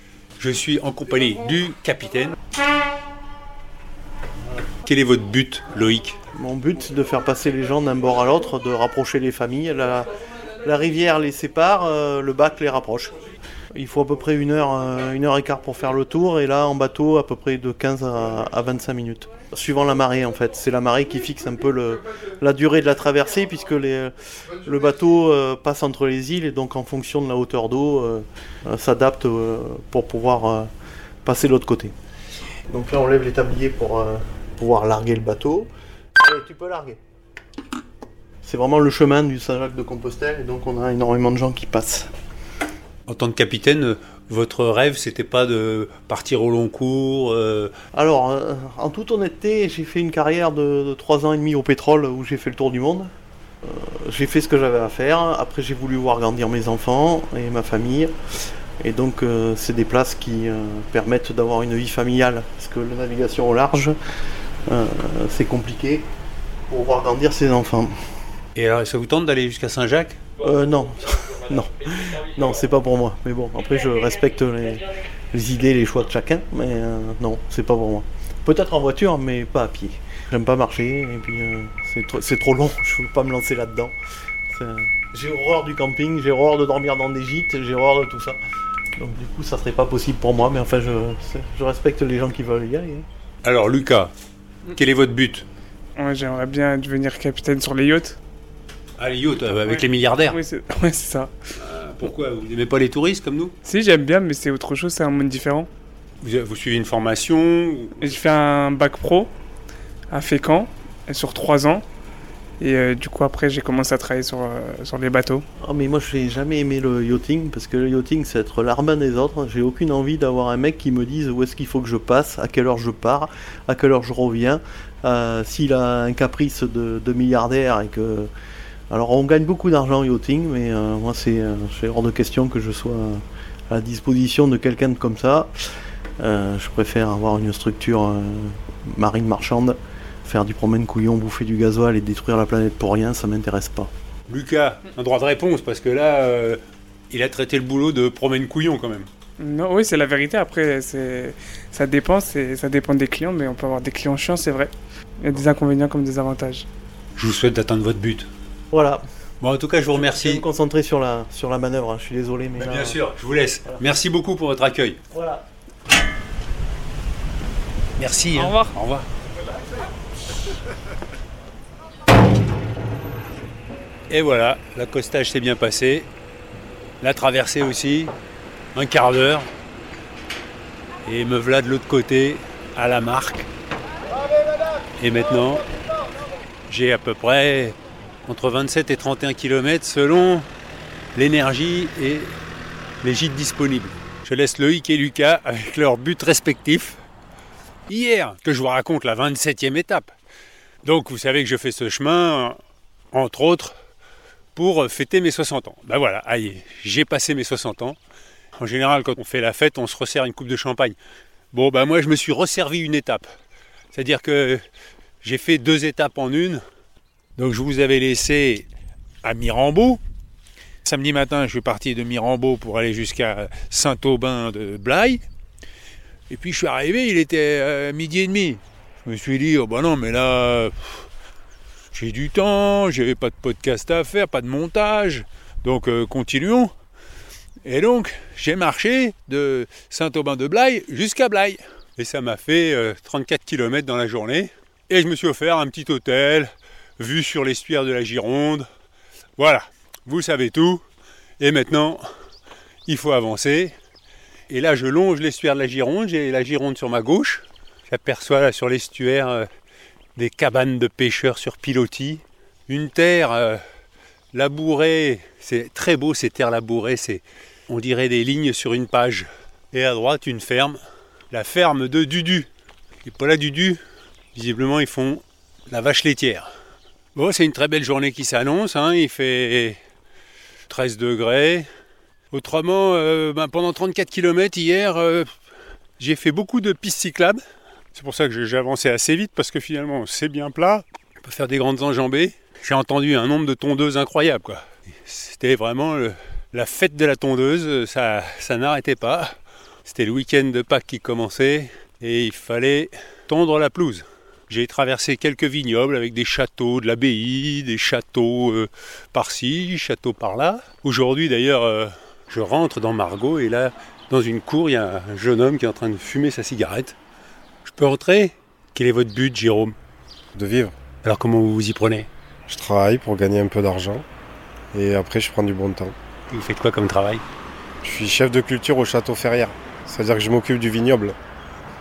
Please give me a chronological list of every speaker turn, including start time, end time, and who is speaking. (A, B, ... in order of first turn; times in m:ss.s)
0:00.4-0:02.3 A
0:04.8-0:06.2 A
0:06.3-0:13.2 B
0:13.7-0:30.7 B
0:31.2-0:31.9 B
0:32.7-0:37.0 B
0:38.4-0:42.1 B
0:43.1-0:47.7 A
0:47.9-0:53.1 B
0:53.6-0:58.1 B
0:58.8-1:04.0 B
1:04.7-1:06.0 B
1:06.7-1:07.9 B
1:08.5-1:10.2 A
1:10.4-1:23.9 B
1:24.5-1:28.4 B
1:29.0-1:33.0 B
1:33.4-1:34.1 A
1:34.7-1:35.4 A
1:36.0-1:38.2 C
1:39.0-1:40.4 A
1:39.7-1:41.4 C
1:41.6-1:43.5 A
1:43.6-1:45.7 C
1:46.2-1:48.3 A
1:48.0-1:49.3 C
1:50.1-1:51.8 C
1:52.6-1:55.4 C
1:55.6-2:08.3 B
2:08.9-2:15.5 B
2:16.2-2:23.9 B
2:24.3-2:29.1 A
2:29.4-2:36.7 C
2:37.2-2:38.3 A
2:38.7-2:39.0 B
2:39.4-2:40.4 A
2:39.9-2:43.0 B
2:42.6-2:45.0 A
2:45.1-2:45.4 B
2:48.0-2:49.0 A
2:48.4-2:48.7 C
2:54.1-2:56.1 A
2:57.0-2:58.1 A
2:58.7-2:59.5 A
3:01.0-3:03.5 A
3:05.0-3:05.6 A
3:06.7-3:10.5 A
3:11.1-3:12.3 A
3:13.0-3:17.0 A
3:17.9-3:20.1 A
3:20.8-3:22.6 A
3:23.1-3:23.7 A
3:24.5-3:28.0 A
3:28.6-3:31.0 A
3:31.5-3:33.3 A
3:33.9-3:34.6 A
3:35.2-3:36.6 A
3:37.4-3:38.7 A
3:39.2-3:40.0 A
3:40.8-3:45.2 A
3:46.3-3:51.0 A
3:51.9-3:56.7 A
3:57.6-4:08.7 A
4:09.4-4:10.8 A
4:11.4-4:12.0 A
4:12.8-4:13.7 A
4:14.5-4:19.5 A
4:20.2-4:23.6 A
4:24.3-4:30.8 A
4:31.3-4:32.5 A
4:33.0-4:33.8 A
4:34.3-4:36.5 A
4:37.1-4:39.8 A
4:40.7-4:41.7 A
4:42.3-4:45.3 A
4:46.0-4:47.4 A
4:47.9-5:17.0 A
5:17.6-5:19.8 A
5:20.4-5:20.7 D
5:21.0-5:22.1 A
5:22.5-5:24.0 D
5:24.7-5:25.9 D
5:26.3-5:27.2 A
5:27.8-5:31.1 D